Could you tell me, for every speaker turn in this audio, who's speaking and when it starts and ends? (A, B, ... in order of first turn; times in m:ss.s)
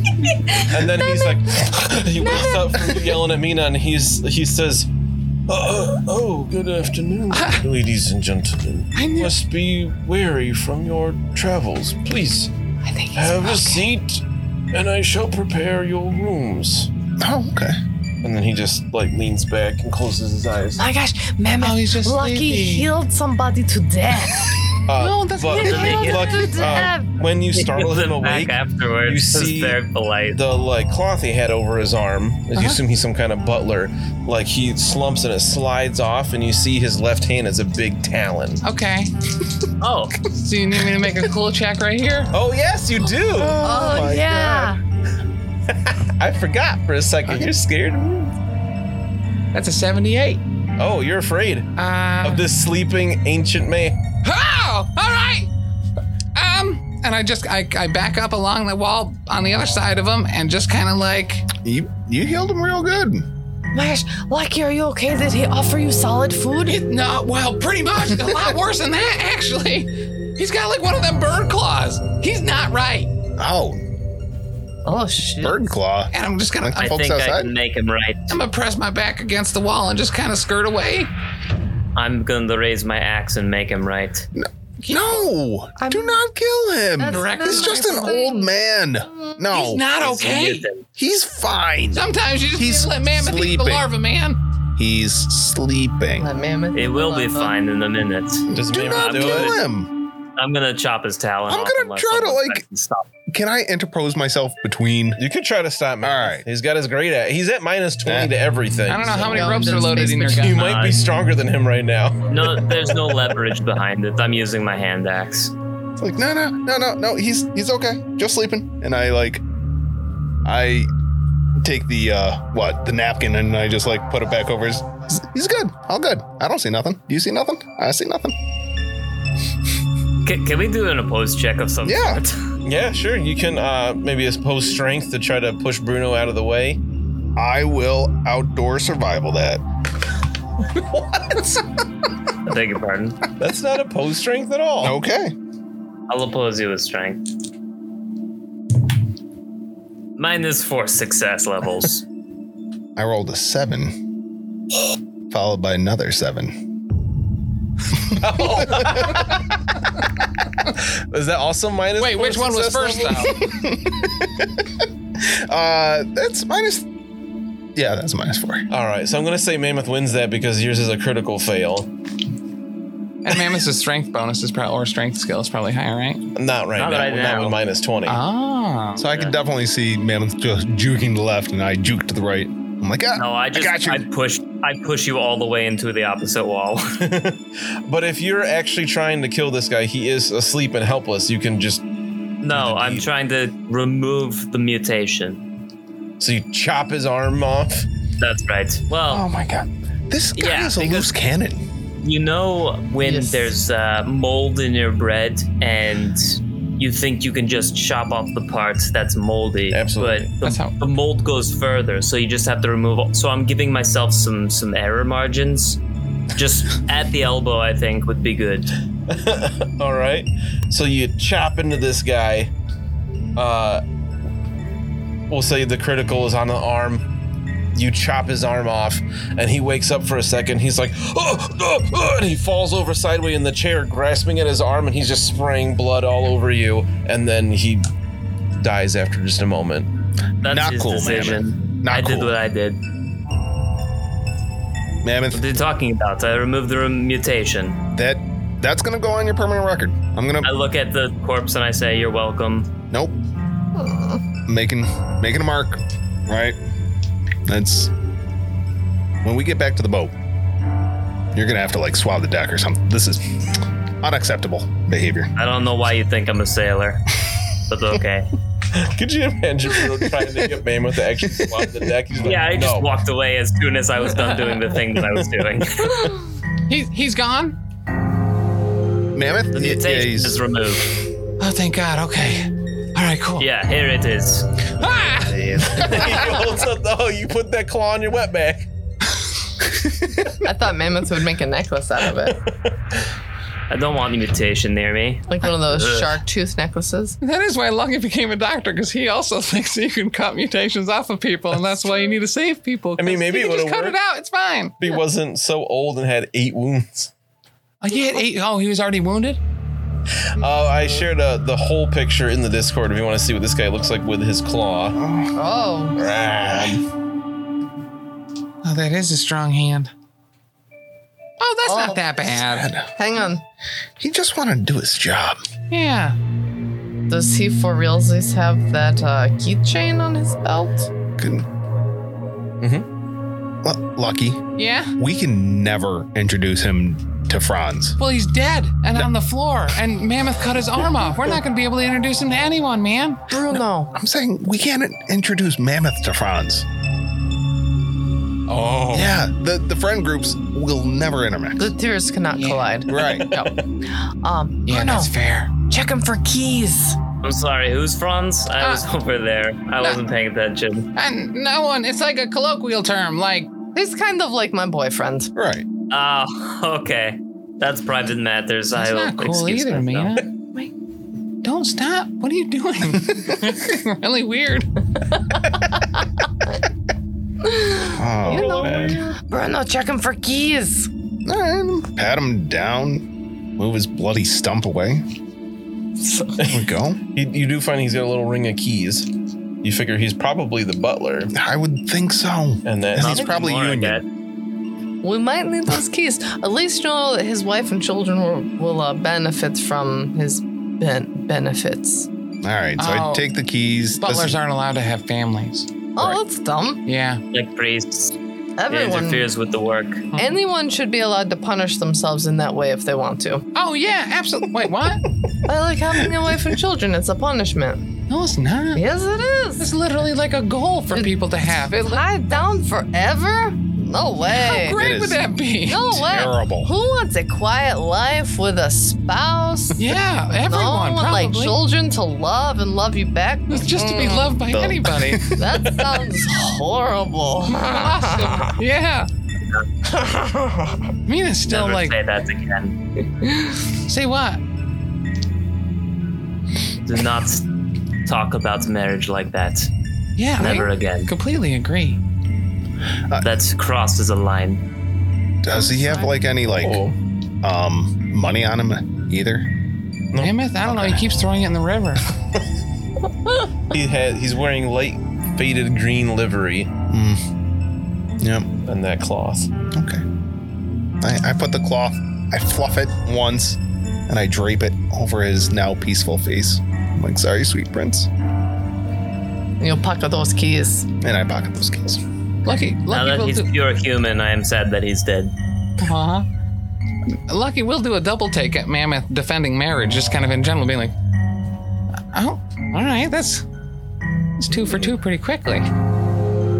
0:00.2-0:01.2 A
0:00.7-0:04.9 B
0:02.2-0:03.2 A
0:05.5-0:12.5 B
0:07.3-0:07.6 C
0:08.9-0:09.3 C
0:12.8-0:13.8 A
0:13.1-0:16.9 B
0:17.2-0:17.8 D
0:18.2-0:20.8 B
0:20.8-0:24.5 A
0:21.6-0:22.9 C
0:24.9-0:29.8 B
0:25.0-0:26.2 C
0:25.5-0:27.1 A
0:25.6-0:26.5 E
0:27.5-0:30.4 E
0:30.3-0:38.6 B
0:32.6-0:32.8 C
0:38.6-0:39.1 C
0:39.8-0:40.2 E
0:40.3-0:42.3 C
0:42.3-0:43.6 B
0:43.2-0:44.7 D
0:43.6-0:44.8 A
0:45.7-0:48.3 B
0:49.5-0:50.4 C
0:50.8-0:51.7 B
0:51.8-0:52.4 C
0:52.2-0:54.0 B
0:54.2-0:55.5 C
0:56.3-1:01.5 C
1:01.6-1:03.2 D
1:03.7-1:06.8 A
1:06.6-1:13.1 C
1:13.4-1:13.8 D
1:14.8-1:15.7 A
1:15.4-1:17.5 D
1:16.1-1:17.0 C
1:16.8-1:18.3 E
1:18.3-1:21.1 C
1:22.0-1:24.3 E
1:24.3-1:29.8 D
1:24.8-1:25.2 C
1:25.8-1:26.2 A
1:27.0-1:28.5 A
1:27.1-1:28.1 C
1:29.5-1:30.7 C
1:30.0-1:30.8 E
1:31.0-1:33.9 D
1:31.9-1:34.4 C
1:34.8-1:36.3 D
1:36.2-1:37.6 A
1:36.7-1:39.6 E
1:38.5-1:39.9 D
1:38.5-1:39.6 B
1:40.4-1:43.0 E
1:41.5-1:42.6 D
1:43.3-1:45.2 D
1:45.2-1:53.2 B
1:46.0-1:46.4 D
1:48.0-1:48.3 D
1:48.9-1:50.6 C
1:49.1-1:50.5 A
1:50.5-1:51.0 E
1:52.3-1:55.5 E
1:56.0-1:59.4 D
2:00.4-2:00.9 D
2:01.6-2:08.3 D
2:10.2-2:12.4 E
2:11.8-2:12.2 D
2:12.6-2:16.8 B
2:17.4-2:19.6 D
2:21.3-2:21.6 D
2:22.4-2:23.2 E
2:23.4-2:25.0 B
2:24.8-2:25.3 D
2:26.1-2:27.2 E
2:30.2-2:32.0 E
2:33.0-2:33.9 D
2:35.3-2:36.5 D
2:37.9-2:39.4 D
2:38.2-2:39.4 B
2:40.6-2:43.3 B
2:42.0-2:43.4 C
2:43.3-2:46.8 D
2:47.7-2:48.6 D
2:48.7-2:51.9 B
2:53.2-2:56.2 C
2:56.3-2:58.2 B
2:56.8-2:57.6 E
2:58.0-2:59.0 C
2:59.0-3:04.0 D
2:59.0-2:59.3 E
3:03.1-3:06.9 E
3:07.0-3:11.8 B
3:12.4-3:15.4 E
3:12.5-3:13.0 B
3:16.2-3:17.9 B
3:18.2-3:19.2 E
3:19.1-3:21.6 D
3:20.4-3:21.1 E
3:22.0-3:35.8 E
3:23.0-3:23.5 A
3:29.7-3:30.3 B
3:30.4-3:30.8 C
3:36.3-3:38.7 E
3:39.1-3:42.5 B
3:43.4-3:43.8 B
3:45.3-3:47.0 B
3:47.7-3:57.9 B
3:58.6-3:59.9 B
4:00.4-4:02.8 E
4:00.4-4:02.3 D
4:05.0-4:05.4 D
4:05.3-4:07.8 E
4:07.9-4:10.5 D
4:10.4-4:12.7 E
4:12.9-4:13.2 D
4:13.7-4:14.2 A
4:14.5-4:16.6 D
4:17.5-4:17.9 D
4:19.2-4:20.1 D
4:21.3-4:23.5 D
4:24.0-4:25.3 D
4:25.4-4:27.0 E
4:27.7-4:28.3 E
4:28.7-4:32.9 B
4:31.3-4:31.8 D
4:32.2-4:36.1 E
4:35.2-4:36.1 B
4:36.7-4:37.6 C
4:39.1-4:40.4 D
4:39.5-4:40.9 E
4:41.4-4:43.4 C
4:43.4-4:46.5 E
4:44.8-4:46.1 C
4:45.8-4:48.7 B
4:50.4-4:52.4 A
4:52.3-4:53.0 B
4:53.7-4:56.1 E
4:55.3-4:57.2 A
4:57.2-5:04.8 C
5:03.0-5:04.0 B
5:04.8-5:07.1 B
5:07.8-5:09.4 C
5:10.3-5:15.0 B
5:14.9-5:15.3 D
5:15.3-5:16.0 A
5:16.0-5:16.8 B
5:18.6-5:19.9 C
5:21.4-5:22.7 C
5:21.6-5:22.2 A
5:22.4-5:22.9 D
5:22.9-5:23.4 A
5:24.0-5:25.4 D
5:25.7-5:26.2 C
5:27.1-5:30.9 A
5:31.2-5:31.5 D
5:32.6-5:32.9 B
5:33.6-5:34.4 D
5:34.6-5:34.9 C
5:35.0-5:38.0 D
5:38.0-5:43.2 C
5:43.3-5:43.9 A
5:43.9-5:46.6 D
5:48.5-5:49.1 C
5:48.9-5:51.7 D
5:51.6-5:53.5 A
5:52.3-5:52.7 C
5:52.9-5:53.3 D
5:52.9-5:53.6 B
5:54.0-5:55.1 A
5:54.6-5:55.5 C
5:55.7-5:57.0 A
5:57.2-6:00.9 E
5:58.6-5:58.8 C
6:01.0-6:03.5 C
6:03.7-6:05.3 A
6:05.3-6:05.6 D
6:05.9-6:10.1 E
6:08.7-6:10.3 C
6:11.4-6:14.7 C
6:17.4-6:20.9 A
6:17.9-6:19.0 D
6:18.2-6:19.0 B
6:21.2-6:23.0 D
6:23.6-6:25.0 D
6:26.0-6:26.4 A
6:26.4-6:29.1 B
6:26.4-6:27.0 D
6:29.6-6:31.3 B
6:31.3-6:34.0 D
6:32.6-6:33.4 B
6:33.0-6:34.0 E
6:35.0-6:42.1 A
6:42.4-6:44.4 D
6:42.8-6:43.3 C
6:44.0-6:46.2 C
6:46.0-6:46.8 A
6:46.8-6:47.2 C
6:47.3-6:48.2 E
6:48.6-6:49.3 A
6:48.7-6:50.1 E
6:50.1-6:50.4 C
6:50.2-6:53.4 A
6:53.5-6:55.0 C
6:55.5-6:57.8 A
6:58.1-6:58.8 C
6:58.7-6:59.7 A
6:59.6-7:02.0 C
7:00.9-7:04.8 A
7:04.3-7:05.9 C
7:04.7-7:06.7 D
7:05.7-7:14.4 A
7:09.8-7:11.6 C
7:13.5-7:15.3 C
7:14.5-7:15.4 D
7:15.3-7:18.6 A
7:15.5-7:16.1 B
7:17.5-7:19.1 C
7:19.8-7:20.8 A
7:21.1-7:21.9 C
7:21.5-7:22.8 E
7:23.9-7:24.4 C
7:26.8-7:27.4 E
7:28.0-7:29.7 E
7:30.2-7:32.0 C
7:30.4-7:31.1 E
7:33.2-7:34.6 E
7:35.4-7:36.8 D
7:35.5-7:36.1 A
7:36.5-7:37.0 B
7:37.4-7:39.5 D
7:40.2-7:42.0 C
7:40.6-7:41.0 D
7:43.7-7:46.7 B
7:46.9-7:47.2 D
7:48.2-7:48.5 D
7:48.6-7:49.5 B
7:49.7-7:50.0 D
7:51.0-7:58.1 D
7:59.6-8:00.9 A
8:01.0-8:02.0 D
8:02.4-8:03.5 C
8:02.9-8:05.3 E
8:05.8-8:06.2 C
8:07.1-8:10.9 C
8:12.1-8:13.4 C
8:14.4-8:15.7 C